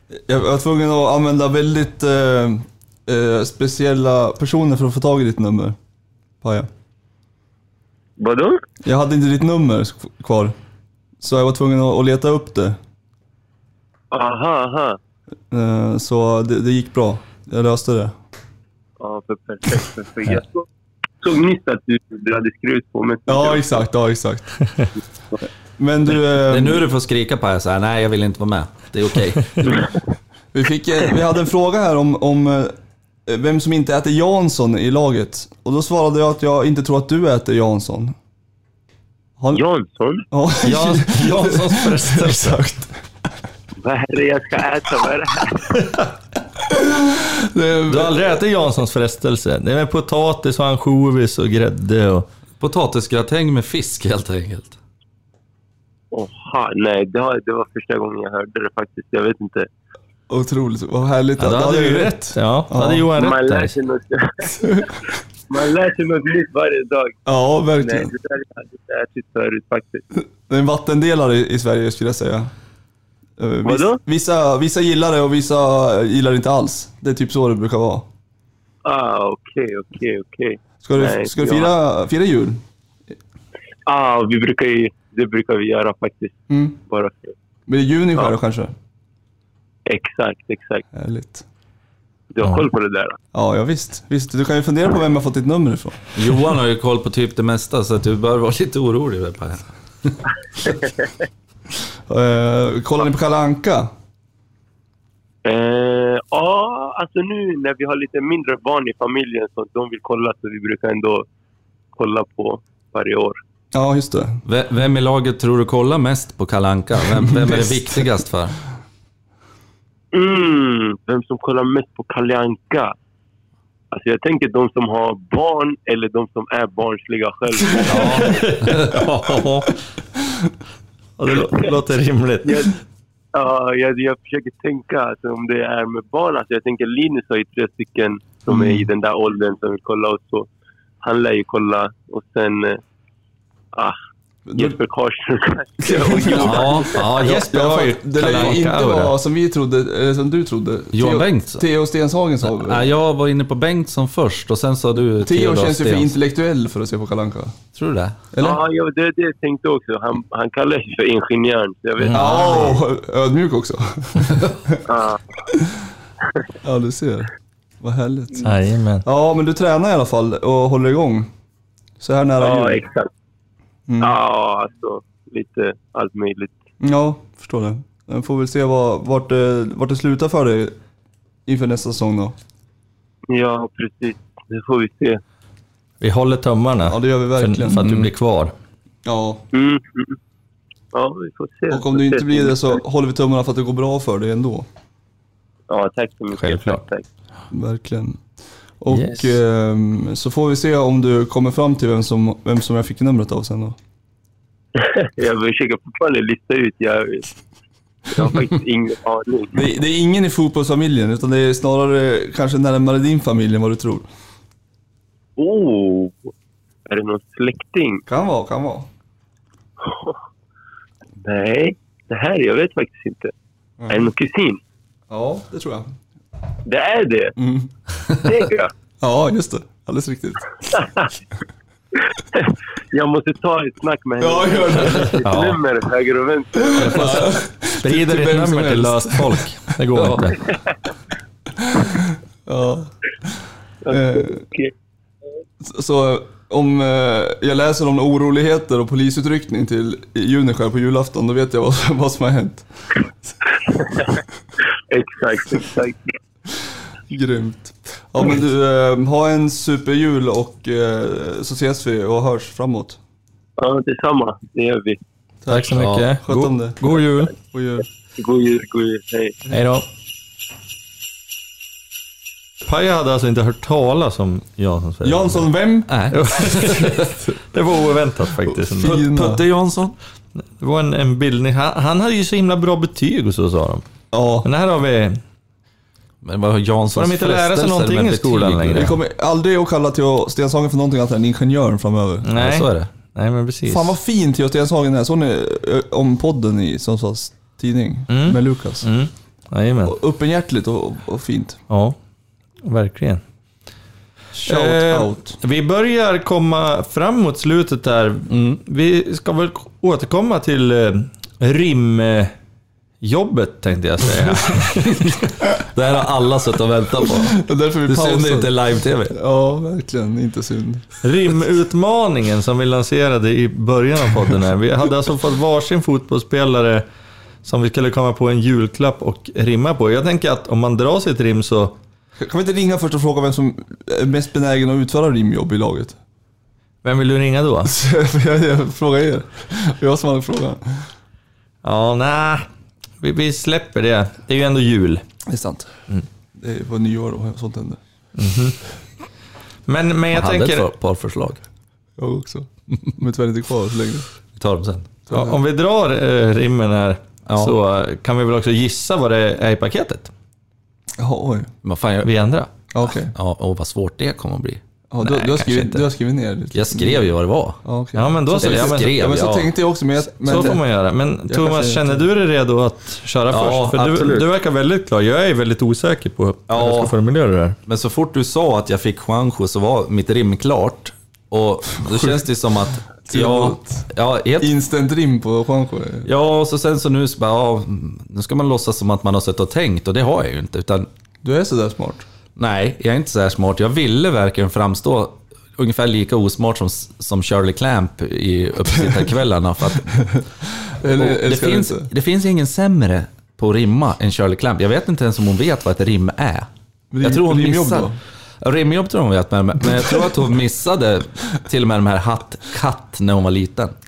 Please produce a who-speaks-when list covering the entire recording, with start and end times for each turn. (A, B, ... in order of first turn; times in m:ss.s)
0:00.2-0:05.8 A
0:06.4-0:06.7 A
0:08.2-0:08.6 B
0:08.8-0:10.5 A
0:11.2-0:12.8 A
0:14.1-0:15.0 B
0:15.5-0:18.2 A
0:19.0-0:20.7 B
0:21.2-0:23.7 B
0:23.3-0:24.5 A
0:25.8-0:26.9 A
0:26.4-0:29.8 C
0:29.6-0:29.9 B
0:30.5-0:32.7 A
0:33.3-0:38.2 A
0:39.5-0:40.3 B
0:40.3-0:43.0 A
0:40.6-0:42.6 D
0:43.8-0:45.9 B
0:46.6-0:48.4 A
0:47.9-0:52.3 D
0:52.6-0:54.8 C
0:56.1-0:59.7 B
1:00.3-1:03.1 A
1:01.4-1:03.8 D
1:03.1-1:07.2 B
1:04.6-1:04.9 A
1:07.3-1:08.1 A
1:07.8-1:10.0 B
1:10.5-1:12.5 A
1:13.4-1:18.1 A
1:13.6-1:14.0 B
1:18.8-1:21.7 B
1:20.8-1:22.6 A
1:23.9-1:27.3 B
1:26.5-1:26.8 A
1:27.7-1:28.7 A
1:29.9-1:30.8 B
1:30.9-1:31.4 A
1:32.3-1:33.2 B
1:32.4-1:32.7 D
1:33.3-1:36.0 A
1:36.2-1:40.2 C
1:42.1-1:43.9 A
1:45.4-1:51.3 B
1:52.0-1:53.4 B
1:53.7-1:54.4 A
1:54.5-1:58.6 C
1:57.2-1:58.0 A
2:00.1-2:03.0 B
2:03.9-2:08.4 B
2:07.7-2:08.1 A
2:07.8-2:09.8 D
2:11.2-2:12.7 D
2:12.4-2:12.8 B
2:13.3-2:20.5 B
2:21.0-2:22.8 B
2:24.5-2:24.8 A
2:24.6-2:27.0 B
2:25.8-2:32.9 A
2:26.3-2:26.9 C
2:26.9-2:29.2 D
2:30.9-2:31.6 C
2:32.5-2:36.1 C
2:35.2-2:37.6 A
2:37.8-2:38.2 C
2:38.3-2:38.6 A
2:38.4-2:42.7 B
2:42.0-2:42.8 D
2:42.1-2:44.8 A
2:44.8-2:45.2 B
2:46.6-2:47.3 A
2:47.8-2:48.5 A
2:48.4-2:49.0 D
2:49.0-2:51.3 A
2:52.0-2:52.8 A
2:52.4-2:53.1 B
2:53.9-2:54.2 A
2:54.0-2:56.6 B
2:56.8-3:00.8 A
3:01.5-3:02.4 A
3:03.3-3:05.2 B
3:06.0-3:08.5 D
3:06.9-3:08.1 A
3:09.0-3:09.4 A
3:09.5-3:10.2 B
3:10.9-3:12.8 B
3:11.7-3:14.7 A
3:15.7-3:17.0 B
3:16.3-3:16.8 D
3:17.5-3:18.2 A
3:18.8-3:23.8 A
3:18.9-3:19.4 D
3:24.8-3:27.4 B
3:28.1-3:29.6 B
3:29.5-3:34.1 A
3:35.4-3:36.3 B
3:36.9-3:38.0 B
3:38.1-3:38.9 A
3:39.8-3:40.2 B
3:41.2-3:43.3 B
3:43.8-3:44.1 A
3:43.9-3:44.6 B
3:45.1-3:45.9 A
3:46.6-3:47.4 B
3:47.4-3:47.7 A
3:48.1-3:48.7 B
3:49.0-3:50.8 A
3:50.7-3:51.1 B
3:52.0-3:57.3 B
3:54.2-3:55.2 A
3:55.2-3:55.6 D
3:56.6-3:59.4 A
3:56.8-4:00.4 D
4:00.0-4:00.2 C
4:00.4-4:00.8 B
4:01.6-4:03.3 A
4:03.8-4:04.7 B
4:03.9-4:04.4 A
4:05.6-4:12.7 A
4:13.7-4:14.2 B
4:14.9-4:16.0 B
4:16.6-4:23.0 A
4:23.6-4:25.0 B
4:25.4-4:27.8 A
4:25.5-4:27.3 D
4:25.8-4:26.1 C
4:28.2-4:29.4 B
4:29.5-4:29.9 D
4:32.6-4:35.5 D
4:35.0-4:35.9 A
4:35.9-4:37.1 C
4:36.1-4:39.1 D
4:38.6-4:39.4 A
4:38.8-4:40.0 C
4:40.6-4:43.9 D
4:44.1-4:44.5 A
4:44.4-4:45.2 D
4:46.2-4:49.0 C
4:46.9-4:49.0 D
4:48.7-4:52.3 A
4:52.2-4:53.9 D
4:52.4-4:52.9 C
4:53.7-4:58.9 A
4:58.1-5:00.0 D
4:59.8-5:01.6 A
5:01.7-5:02.0 D
5:02.6-5:03.2 D
5:04.4-5:05.4 A
5:04.4-5:12.3 D
5:08.3-5:08.6 C
5:13.0-5:15.2 D
5:15.4-5:19.2 C
5:17.2-5:18.6 A
5:19.1-5:20.8 A
5:21.0-5:26.8 D
5:27.4-5:31.8 D
5:32.2-5:36.0 A
5:36.8-5:37.7 D
5:37.6-5:40.9 A
5:41.6-5:42.5 D
5:43.0-5:45.0 D
5:45.3-5:45.7 A
5:46.4-5:47.8 A
5:48.2-5:48.6 D
5:49.7-5:50.7 D
5:50.1-5:51.4 C
5:52.0-5:54.1 A
5:54.4-5:54.9 C
5:55.1-5:55.4 A
5:55.1-6:00.1 D
5:57.3-5:57.6 C
6:01.0-6:01.5 A
6:01.6-6:02.1 C
6:02.0-6:02.5 D
6:02.7-6:03.1 A
6:03.1-6:04.6 C
6:04.9-6:07.1 A
6:05.0-6:05.8 D
6:06.5-6:07.6 C
6:07.6-6:10.6 A
6:08.0-6:09.1 D
6:08.4-6:09.6 C
6:10.1-6:17.6 D
6:11.3-6:12.1 A
6:13.3-6:14.3 C
6:16.5-6:16.9 C
6:17.7-6:24.5 C
6:21.8-6:22.3 A
6:23.1-6:26.1 A
6:26.0-6:30.9 C
6:31.2-6:32.1 A
6:32.4-6:40.2 C
6:40.0-6:41.9 A
6:40.8-6:46.5 C
6:46.9-6:48.0 A
6:47.0-6:53.8 C